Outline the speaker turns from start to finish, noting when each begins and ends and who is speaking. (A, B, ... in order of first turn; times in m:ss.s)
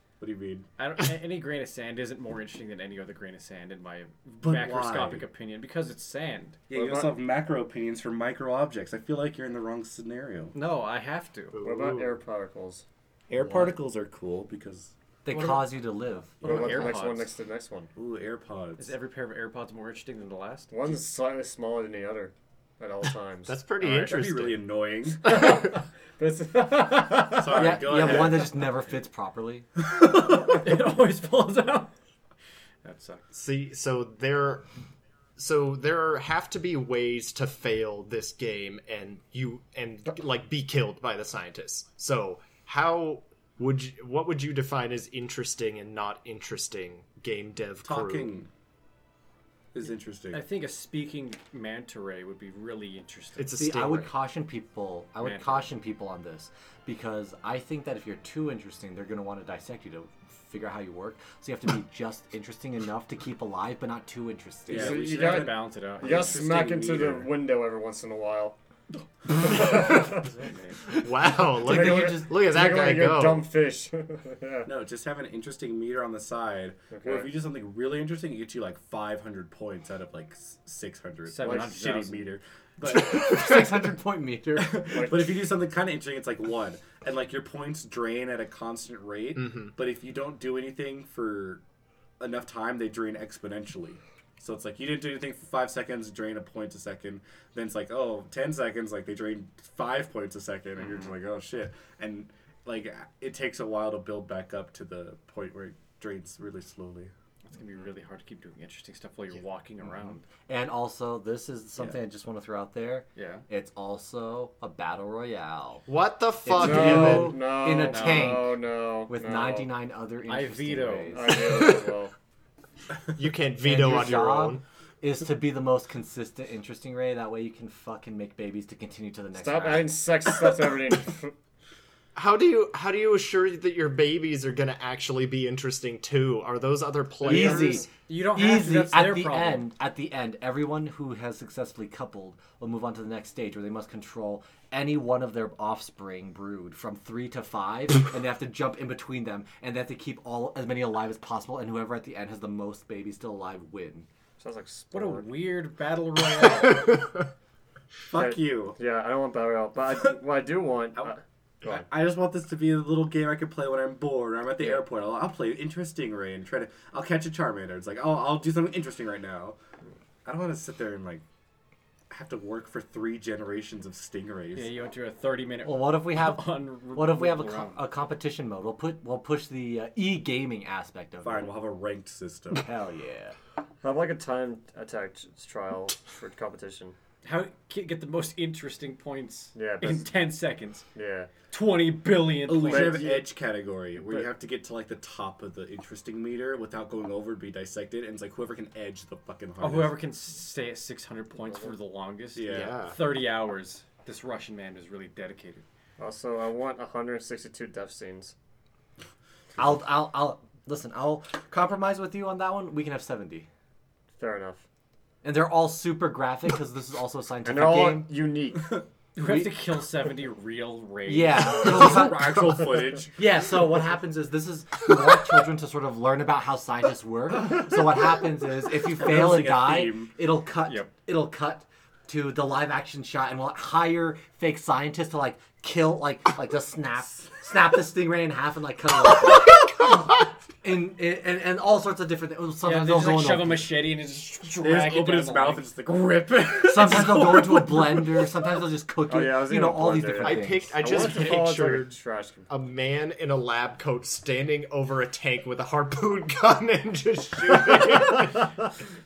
0:00.2-0:00.7 A
0:00.8-0:06.6 B
0:04.4-0:05.3 A
0:06.7-0:10.6 A
0:06.7-0:07.2 C
0:10.5-0:11.6 B
0:11.5-0:12.2 D
0:11.6-0:12.8 C
0:13.3-0:14.9 A
0:13.4-0:13.7 E
0:15.2-0:16.4 E
0:15.3-0:15.6 B
0:16.4-0:17.3 B
0:16.4-0:17.9 C
0:16.5-0:16.9 A
0:18.0-0:19.0 A
0:18.8-0:20.8 B
0:20.7-0:23.6 C
0:23.5-0:24.7 D
0:23.8-0:25.2 A
0:25.2-0:28.0 C
0:25.3-0:25.8 D
0:27.2-0:28.5 A
0:27.5-0:29.7 E
0:30.4-0:31.9 B
0:32.8-0:33.2 B
0:33.3-0:34.7 D
0:35.4-0:48.3 D
0:47.8-0:48.5 A
0:49.7-0:50.4 A
0:50.3-0:53.5 B
0:53.4-0:54.1 D
0:53.6-1:05.0 E
0:55.2-0:55.7 B
1:04.7-1:07.3 A
1:04.7-1:08.6 C
1:04.8-1:06.4 B
1:09.3-1:10.2 C
1:09.6-1:10.2 D
1:09.6-1:10.8 B
1:11.0-1:13.5 D
1:11.5-1:12.4 E
1:11.6-1:14.7 C
1:14.7-1:23.9 A
1:16.9-1:17.3 C
1:21.3-1:22.3 B
1:21.4-1:21.8 C
1:22.9-1:25.0 E
1:24.6-1:31.6 A
1:24.9-1:25.3 C
1:29.4-1:29.7 D
1:32.2-1:47.1 A
1:40.8-1:41.2 B
1:47.5-1:50.3 B
1:50.5-1:55.9 E
1:53.2-1:53.4 B
1:55.9-1:57.4 D
1:56.4-1:58.6 E
1:56.5-1:59.7 C
1:57.9-1:58.4 B
1:59.1-2:01.4 E
2:00.3-2:01.3 B
2:01.1-2:02.1 C
2:03.1-2:04.6 D
2:03.6-2:09.9 E
2:09.3-2:11.3 C
2:12.2-2:17.9 D
2:17.2-2:34.1 E
2:17.3-2:19.7 B
2:34.4-2:35.3 C
2:34.9-2:37.0 B
2:36.4-2:37.3 D
2:38.1-2:38.8 A
2:38.1-2:41.8 C
2:41.6-2:49.6 A
2:50.2-2:51.2 A
2:52.1-2:54.7 A
2:54.5-2:57.8 B
2:55.6-3:01.5 E
3:01.2-3:02.6 A
3:02.6-3:03.4 E
3:03.8-3:07.0 C
3:07.2-3:10.9 B
3:09.6-3:10.1 C
3:11.0-3:11.3 C
3:11.5-3:13.0 B
3:12.4-3:20.0 A
3:12.5-3:13.3 C
3:19.6-3:25.6 B
3:21.4-3:21.8 C
3:22.4-3:22.8 A
3:22.5-3:23.0 D
3:26.0-3:28.4 C
3:29.6-3:33.5 E
3:34.2-3:34.6 C
3:35.2-3:38.1 E
3:37.4-3:38.8 C
3:39.2-3:41.9 B
3:39.2-3:39.6 E
3:41.1-3:42.6 E
3:41.6-3:43.2 A
3:43.2-3:59.9 E
3:48.9-3:50.1 A
3:50.6-3:50.9 B
4:00.6-4:03.7 E
4:02.6-4:05.7 B
4:04.6-4:08.3 A
4:06.6-4:10.8 E
4:09.1-4:12.5 C
4:10.2-4:12.0 D
4:12.5-4:18.5 D